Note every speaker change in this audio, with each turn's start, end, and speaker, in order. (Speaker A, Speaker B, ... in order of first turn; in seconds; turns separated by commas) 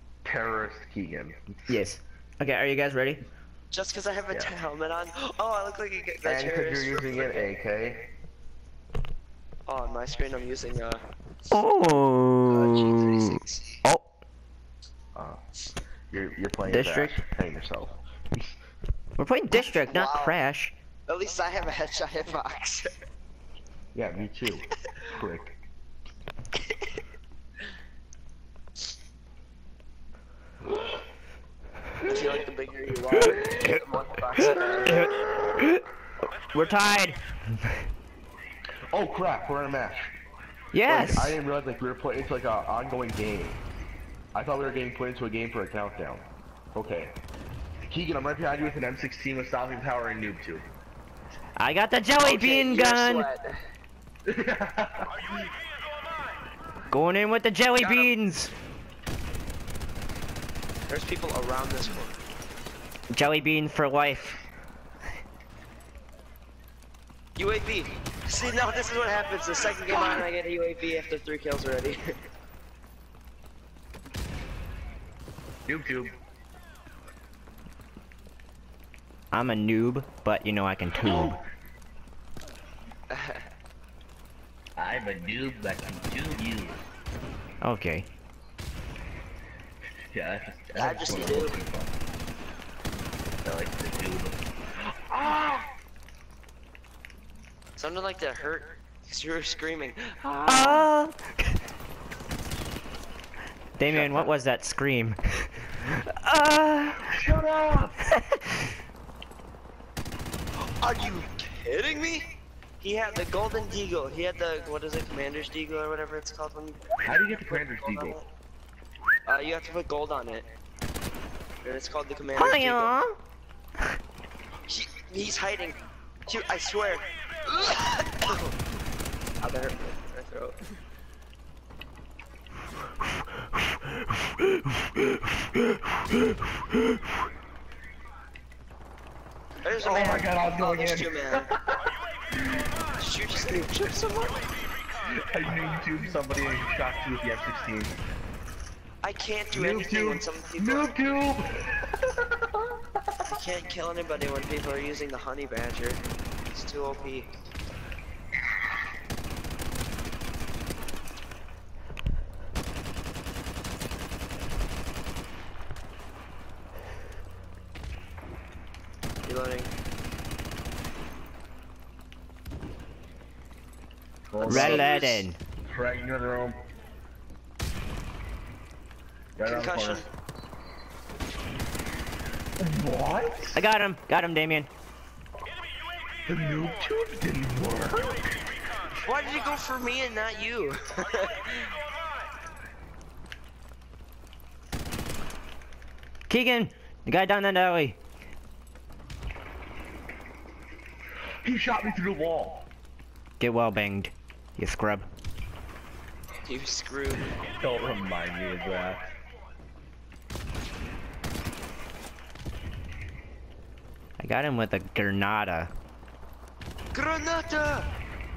Speaker A: 0.2-1.5, Speaker B: 1.7-3.2, Speaker C: 3.7-7.5, Speaker A: 6.2-8.1, Speaker C: 9.7-11.0, Speaker B: 11.5-14.1, Speaker C: 12.5-13.8, Speaker A: 16.1-18.5, Speaker B: 16.6-17.2, Speaker B: 19.2-20.7, Speaker C: 19.5-20.4, Speaker C: 21.1-22.9, Speaker A: 23.9-25.6, Speaker C: 32.0-35.1, Speaker B: 34.9-35.8, Speaker B: 36.5-37.2, Speaker A: 38.9-40.1, Speaker B: 40.7-41.4, Speaker A: 40.9-43.6, Speaker A: 44.3-47.1, Speaker A: 47.9-50.6, Speaker B: 51.6-53.3, Speaker C: 52.2-53.6, Speaker A: 54.2-55.1, Speaker B: 56.9-58.5, Speaker C: 57.8-58.1, Speaker C: 60.9-62.2, Speaker B: 63.1-64.4, Speaker C: 67.3-72.1, Speaker A: 75.7-76.2, Speaker B: 79.3-81.4, Speaker A: 81.0-81.5, Speaker C: 83.1-83.4, Speaker A: 84.8-86.8, Speaker B: 87.6-88.1, Speaker A: 90.1-92.0, Speaker C: 90.7-91.6, Speaker A: 93.4-95.7, Speaker C: 97.8-100.9, Speaker B: 100.4-101.5, Speaker B: 103.8-107.2, Speaker A: 103.8-104.3, Speaker A: 107.1-108.0, Speaker B: 108.1-108.7, Speaker C: 110.6-118.3, Speaker A: 117.0-118.2, Speaker C: 119.2-120.5, Speaker C: 121.6-122.9, Speaker B: 122.3-123.2, Speaker C: 124.7-128.5, Speaker C: 129.4-130.6, Speaker C: 139.6-141.5, Speaker A: 139.8-142.7, Speaker C: 143.0-144.5, Speaker A: 145.1-148.0, Speaker C: 149.0-151.0, Speaker A: 149.5-152.7, Speaker C: 153.2-157.3, Speaker C: 169.2-169.7, Speaker A: 174.3-174.9, Speaker B: 174.4-175.4, Speaker C: 174.5-175.2, Speaker A: 175.7-176.6, Speaker A: 179.3-180.0, Speaker C: 179.4-180.1, Speaker A: 182.6-183.6, Speaker B: 183.5-184.7, Speaker A: 186.3-188.3, Speaker C: 189.0-191.7, Speaker B: 196.3-197.9, Speaker A: 201.4-202.7, Speaker B: 203.4-205.1, Speaker C: 206.4-207.3, Speaker A: 207.4-209.1, Speaker B: 214.2-215.7, Speaker C: 216.9-217.9